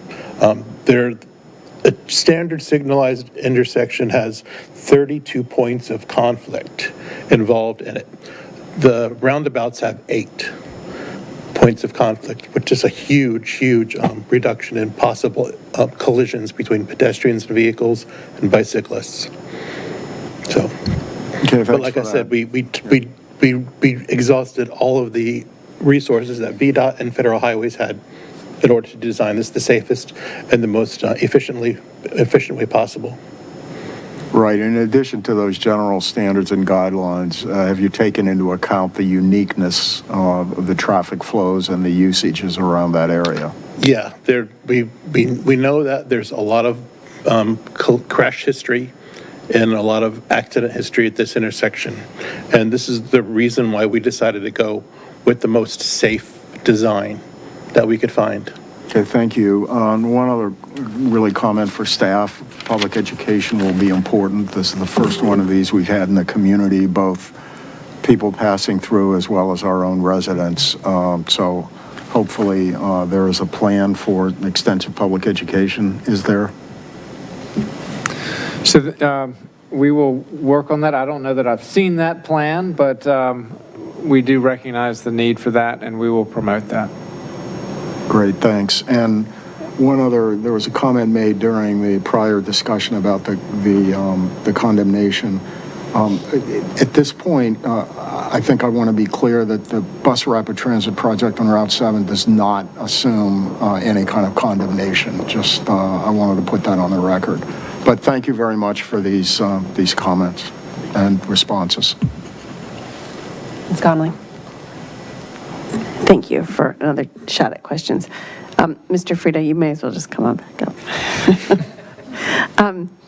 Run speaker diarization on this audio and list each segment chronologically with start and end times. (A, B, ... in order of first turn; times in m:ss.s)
0:00.4-0:01.2 A
0:01.8-0:08.1 A
0:08.8-0:10.5 A
0:11.5-0:19.3 A
0:20.5-0:20.7 A
0:21.4-0:22.3 B
0:21.7-0:28.0 A
0:28.6-0:33.2 A
0:34.3-0:43.5 B
0:43.8-0:48.9 A
0:49.5-0:58.5 A
0:58.9-1:07.4 B
1:08.0-1:16.5 B
1:18.6-1:26.9 C
1:28.1-1:52.0 B
1:53.7-1:54.2 D
1:56.0-2:02.9 D